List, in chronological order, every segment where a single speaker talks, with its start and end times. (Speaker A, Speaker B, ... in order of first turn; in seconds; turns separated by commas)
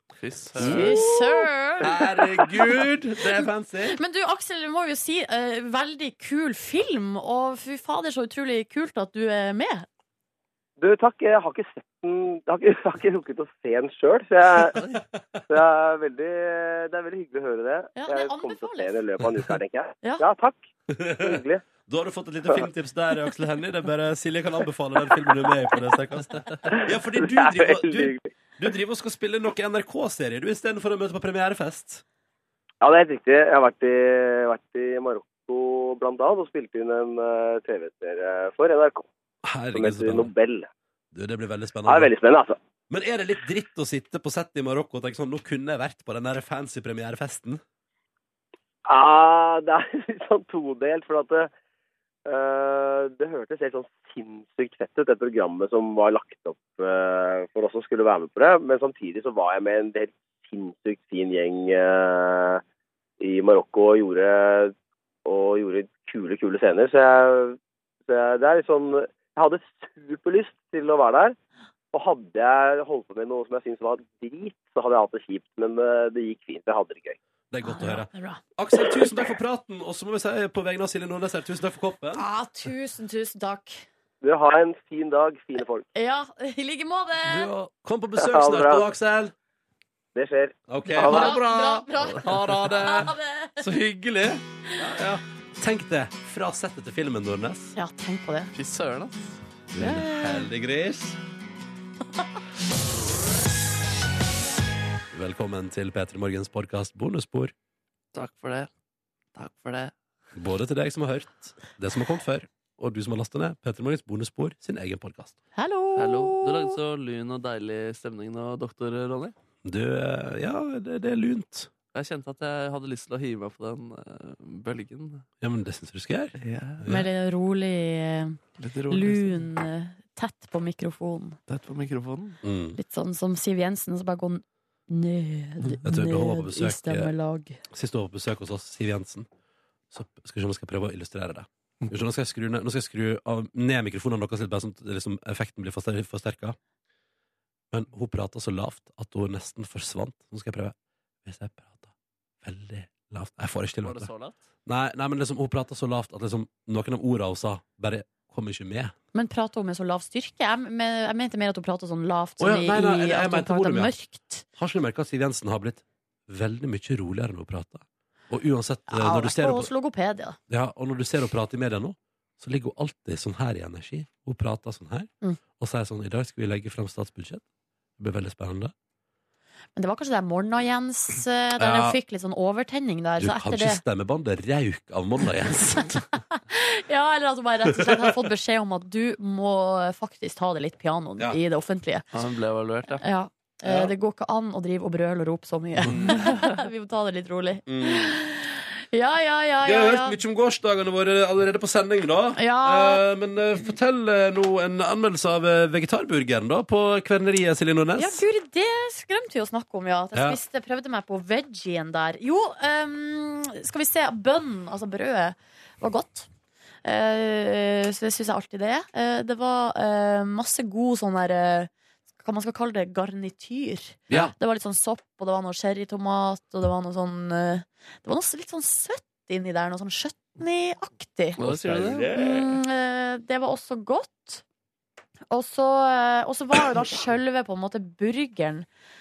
Speaker A: 0.2-0.9, Speaker B: 0.6-1.0, Speaker C: 0.6-2.6, Speaker B: 1.8-4.0, Speaker C: 3.9-9.9, Speaker D: 10.8-14.8, Speaker B: 14.7-15.2, Speaker D: 15.5-20.6, Speaker C: 17.9-19.0, Speaker B: 20.9-32.0, Speaker D: 21.2-21.6, Speaker D: 26.7-28.3, Speaker D: 32.8-39.0, Speaker B: 39.4-40.3, Speaker D: 39.7-40.7, Speaker B: 41.1-42.1, Speaker D: 41.9-42.6, Speaker B: 42.9-47.6, Speaker D: 48.9-51.5, Speaker D: 52.2-62.6, Speaker D: 63.2-64.7, Speaker D: 65.2-71.3, Speaker D: 71.9-77.2, Speaker B: 77.5-82.2, Speaker C: 77.6-78.4, Speaker C: 82.1-83.8, Speaker D: 84.2-85.8, Speaker C: 85.9-87.5, Speaker B: 87.2-89.3, Speaker D: 88.2-88.8, Speaker D: 90.1-91.3, Speaker B: 90.7-92.8, Speaker C: 91.0-93.6, Speaker A: 92.2-94.4, Speaker B: 94.8-97.7, Speaker C: 97.7-98.5, Speaker A: 98.5-99.3, Speaker B: 99.7-101.2, Speaker C: 99.8-100.5, Speaker B: 105.1-107.5, Speaker A: 108.1-108.7, Speaker A: 109.3-109.9, Speaker B: 110.3-115.4, Speaker C: 115.5-116.7, Speaker A: 116.0-119.3, Speaker B: 119.6-121.7, Speaker A: 121.9-125.2, Speaker B: 125.4-127.1, Speaker A: 126.4-126.8, Speaker C: 126.8-131.4, Speaker A: 128.6-129.5, Speaker A: 131.5-132.4, Speaker B: 132.4-132.8, Speaker C: 132.8-137.6, Speaker B: 135.8-137.1, Speaker B: 137.7-139.3, Speaker B: 139.9-146.6, Speaker B: 147.7-150.7, Speaker B: 151.2-151.9, Speaker B: 152.4-154.1, Speaker A: 153.8-154.3, Speaker B: 154.7-158.9, Speaker C: 159.1-164.4, Speaker B: 162.4-163.9, Speaker B: 164.6-169.7, Speaker C: 168.9-170.4, Speaker B: 170.5-177.4, Speaker B: 178.0-178.7, Speaker C: 179.8-183.8, Speaker B: 181.6-182.0, Speaker B: 183.2-186.1, Speaker C: 186.3-192.1, Speaker B: 187.7-188.1, Speaker A: 192.1-193.0, Speaker C: 193.0-200.2, Speaker B: 193.6-193.9, Speaker B: 195.8-196.3, Speaker B: 197.7-198.1, Speaker B: 199.6-208.2, Speaker C: 202.4-203.0, Speaker C: 208.0-216.3, Speaker C: 216.8-231.4, Speaker A: 231.4-232.2, Speaker B: 231.4-232.4, Speaker C: 232.1-234.4, Speaker C: 235.3-238.7